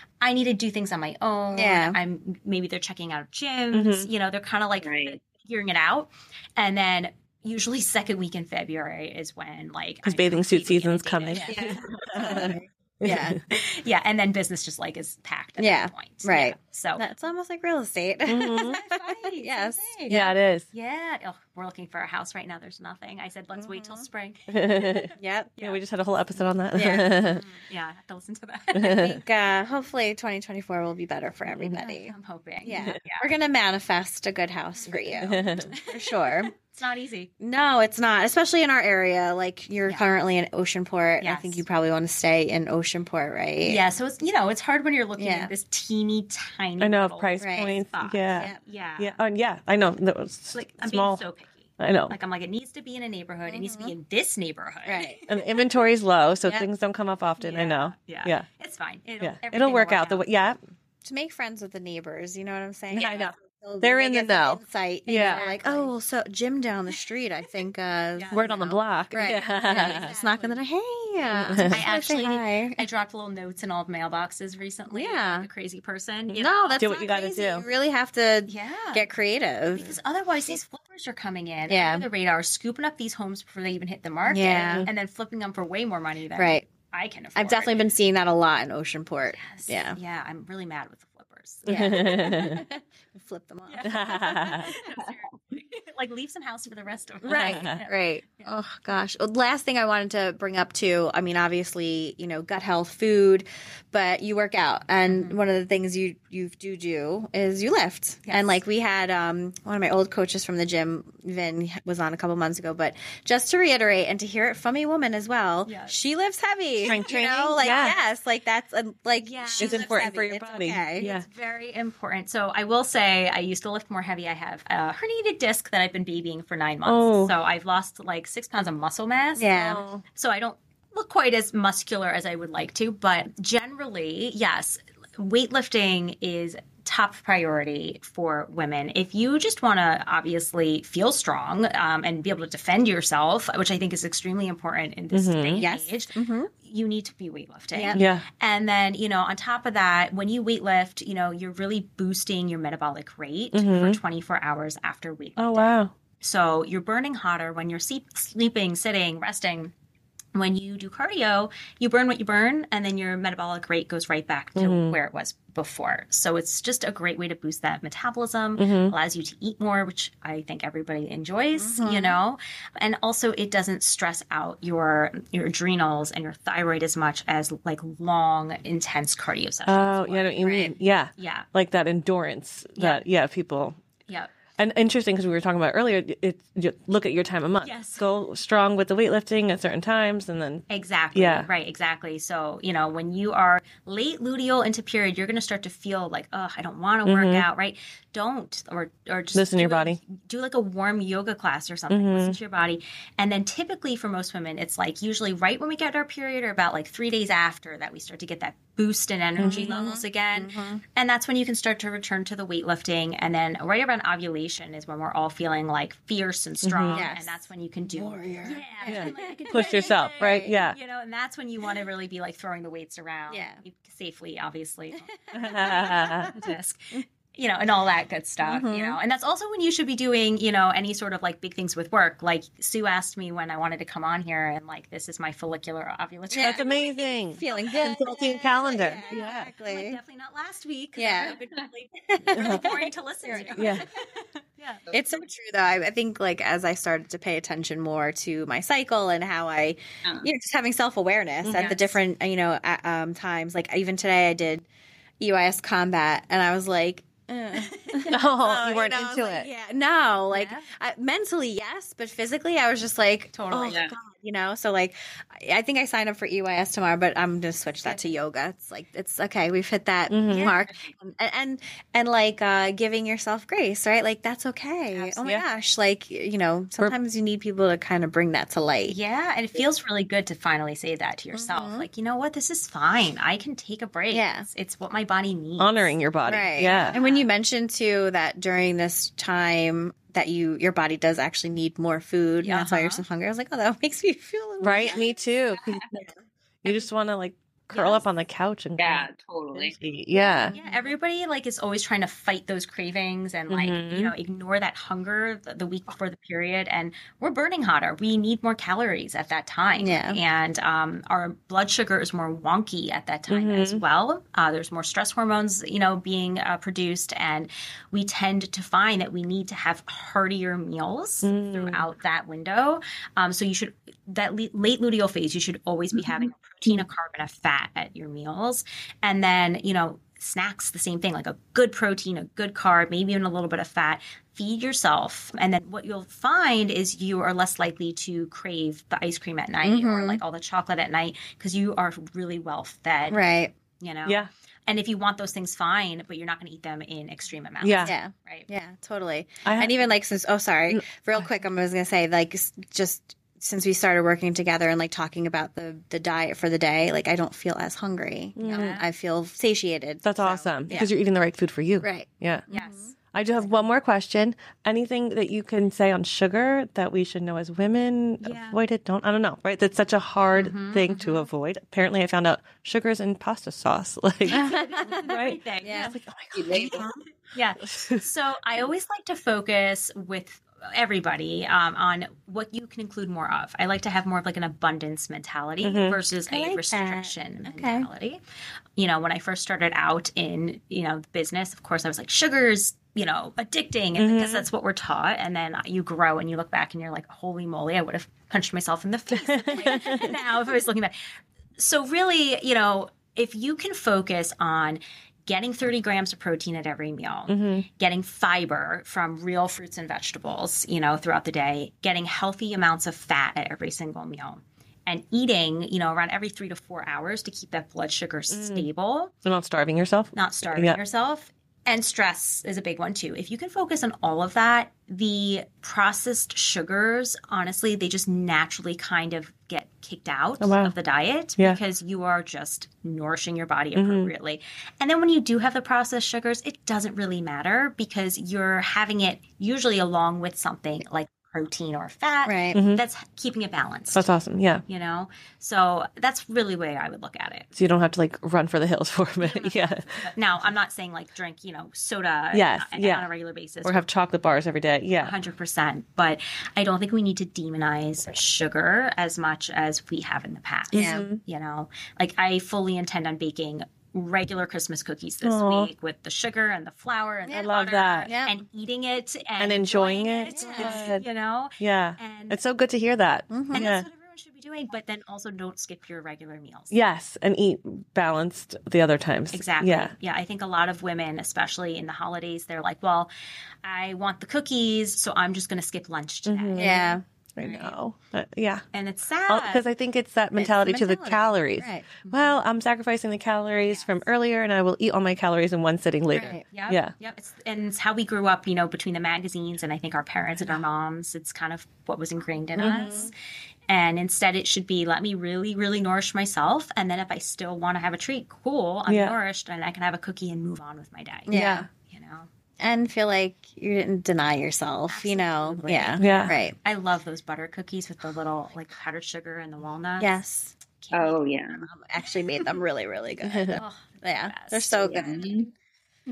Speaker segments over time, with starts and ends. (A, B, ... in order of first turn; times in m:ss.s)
0:00.2-0:12.6 A
0:01.5-0:02.0 B
0:03.7-0:04.1 C
0:04.8-0:05.2 D
0:10.0-0:13.4 C
0:11.3-0:13.4 B
0:13.5-0:17.1 A
0:15.6-0:20.1 B
0:18.3-0:18.8 C
0:18.7-0:25.8 A
0:20.1-0:20.7 C
0:23.6-0:24.1 B
0:24.5-0:25.1 C
0:25.2-0:25.5 B
0:25.6-0:27.4 C
0:26.7-0:27.2 B
0:27.3-0:29.2 A
0:28.8-0:29.2 C
0:28.8-0:36.5 B
0:31.7-0:33.3 A
0:34.8-0:35.1 A
0:35.0-0:35.7 C
0:35.6-0:37.3 A
0:37.4-0:43.8 B
0:41.2-0:41.6 A
0:43.7-0:49.2 A
0:45.2-0:45.5 B
0:46.8-0:51.2 C
0:47.4-0:47.8 B
0:48.3-0:48.6 B
0:50.5-0:55.5 A
0:51.8-0:52.2 C
0:53.5-0:53.9 B
0:54.9-0:55.2 B
0:55.3-0:58.5 C
0:57.4-1:00.2 A
0:59.2-1:00.6 C
1:01.0-1:12.8 B
1:02.9-1:05.9 C
1:05.1-1:05.9 A
1:08.2-1:08.6 A
1:08.3-1:10.2 C
1:09.3-1:10.6 A
1:11.3-1:11.8 C
1:11.6-1:16.8 A
1:14.9-1:15.5 B
1:16.4-1:19.9 B
1:16.8-1:17.6 C
1:18.5-1:19.0 A
1:19.7-1:27.8 A
1:21.7-1:22.1 B
1:24.3-1:24.9 B
1:26.4-1:26.7 B
1:27.4-1:30.0 B
1:29.3-1:32.6 A
1:31.7-1:32.6 C
1:31.7-1:34.8 B
1:33.7-1:38.5 A
1:33.8-1:34.8 C
1:37.2-2:01.1 B
1:37.3-1:37.8 C
1:45.1-1:45.4 A
1:48.3-1:48.6 A
1:55.6-1:56.0 A
1:56.8-1:58.0 C
1:56.9-1:58.0 A
1:59.2-2:00.3 A
1:59.6-2:01.3 C
2:01.0-2:39.7 A
2:06.9-2:07.3 C
2:09.4-2:09.8 B
2:09.6-2:10.0 C
2:25.1-2:25.6 C
2:25.6-2:26.5 B
2:27.7-2:28.1 B
2:27.9-2:28.2 C
2:33.5-2:34.0 C
2:35.4-2:35.9 C
2:40.3-3:01.5 A
2:44.6-2:45.0 C
2:48.6-2:48.9 C
2:51.6-2:52.2 B
2:59.7-3:03.8 C
3:00.4-3:00.7 B
3:02.8-3:03.0 A
3:04.6-3:11.5 C
3:07.6-3:08.1 A
3:10.7-3:57.1 A
3:17.0-3:17.4 C
3:19.4-3:20.0 C
3:21.9-3:22.4 C
3:29.4-3:29.9 C
3:29.4-3:30.8 B
3:36.6-3:37.0 C
3:36.9-3:39.9 B
3:38.9-3:40.8 C
3:43.3-3:43.6 B
3:45.0-3:47.0 B
3:45.3-3:46.4 C
3:48.4-3:49.0 B
3:56.3-3:56.7 B
3:56.3-3:59.5 C
3:57.3-4:00.0 B
3:59.1-4:04.9 A
4:01.0-4:01.4 B
4:02.2-4:03.8 B
4:02.3-4:02.7 C
4:03.5-4:03.9 C
4:04.9-4:05.2 D
4:04.9-4:14.7 B
4:11.4-4:11.8 C
4:11.5-4:12.0 A
4:15.2-4:39.0 B
4:17.6-4:18.2 A
4:18.1-4:19.5 C
4:20.3-4:20.7 A
4:23.3-4:23.8 A
4:23.7-4:23.9 D
4:27.8-4:28.1 A
4:30.1-4:30.6 C
4:30.3-4:30.7 A
4:34.9-4:35.8 A
4:38.9-4:45.9 A
4:41.3-4:41.9 B
4:44.1-4:44.5 B
4:45.6-4:47.0 C
4:46.3-4:55.2 B
4:46.6-4:47.3 A
4:52.4-4:53.0 A
4:54.6-4:55.8 C
4:56.6-5:00.6 C
4:57.7-4:58.0 A
4:58.8-4:59.8 D
5:00.1-5:00.8 B
5:00.5-5:43.2 A
5:03.5-5:04.1 C
5:09.8-5:10.2 B
5:13.3-5:13.8 C
5:21.2-5:21.8 C
5:39.6-5:40.2 B
5:43.1-5:43.5 B
5:43.8-5:48.5 A
5:47.6-5:48.0 C
5:47.8-6:00.9 B
5:49.4-5:49.9 C
5:58.4-5:58.8 C
5:58.4-5:58.9 A
6:00.0-6:02.5 C
6:01.8-6:02.9 B
6:02.5-6:02.9 A
6:03.1-6:16.9 C
6:08.2-6:08.6 A
6:10.3-6:11.3 A
6:14.2-6:16.0 A
6:14.3-6:15.1 B
6:15.6-6:16.0 B
6:16.3-6:16.9 D
6:16.5-6:17.0 B
6:17.3-6:28.2 A
6:17.6-6:18.0 C
6:25.6-6:26.0 C
6:26.3-6:27.9 B
6:28.8-6:59.1 A
6:34.0-6:34.5 C
6:39.3-6:40.2 C
6:47.3-6:47.6 C
6:58.3-6:58.7 C
6:59.2-7:00.8 C
7:00.1-7:24.1 A
7:10.4-7:10.7 C
7:13.8-7:14.1 C
7:22.2-7:22.6 B
7:22.5-7:22.8 C
7:23.9-7:24.6 C
7:24.7-7:27.5 A
7:27.5-7:29.8 C
7:29.2-7:33.9 A
7:32.3-7:33.1 C
7:33.6-7:35.2 C
7:35.0-7:52.4 A
7:40.7-7:41.2 C
7:40.7-7:41.1 B
7:45.2-7:45.7 C
7:47.2-7:47.5 B
7:47.3-7:48.1 C
7:48.1-7:48.4 B
7:49.4-7:51.1 C
7:50.2-7:50.9 B
7:51.6-7:53.9 C
7:53.3-7:53.7 B
7:53.5-7:56.8 A
7:56.7-7:59.9 C
7:59.3-8:03.1 A
8:03.6-8:07.8 A
8:06.3-8:08.6 C
8:06.6-8:07.0 B
8:08.7-8:09.7 A
8:09.3-8:16.9 C
8:10.4-8:11.9 B
8:12.0-8:12.4 A
8:13.7-8:14.1 A
8:16.1-8:16.4 B
8:16.5-8:23.1 A
8:22.6-8:23.1 B
8:22.6-8:22.9 C
8:23.7-8:32.3 A
8:28.9-8:29.2 C
8:31.3-8:31.7 B
8:31.3-8:31.7 C
8:32.6-8:36.6 B
8:34.9-8:40.1 A
8:36.0-8:36.4 C
8:40.0-8:40.5 B
8:40.8-8:41.2 A
8:40.9-8:41.7 D
8:41.5-8:45.3 B
8:43.3-8:43.6 C
8:43.5-8:45.3 A
8:44.8-8:45.5 D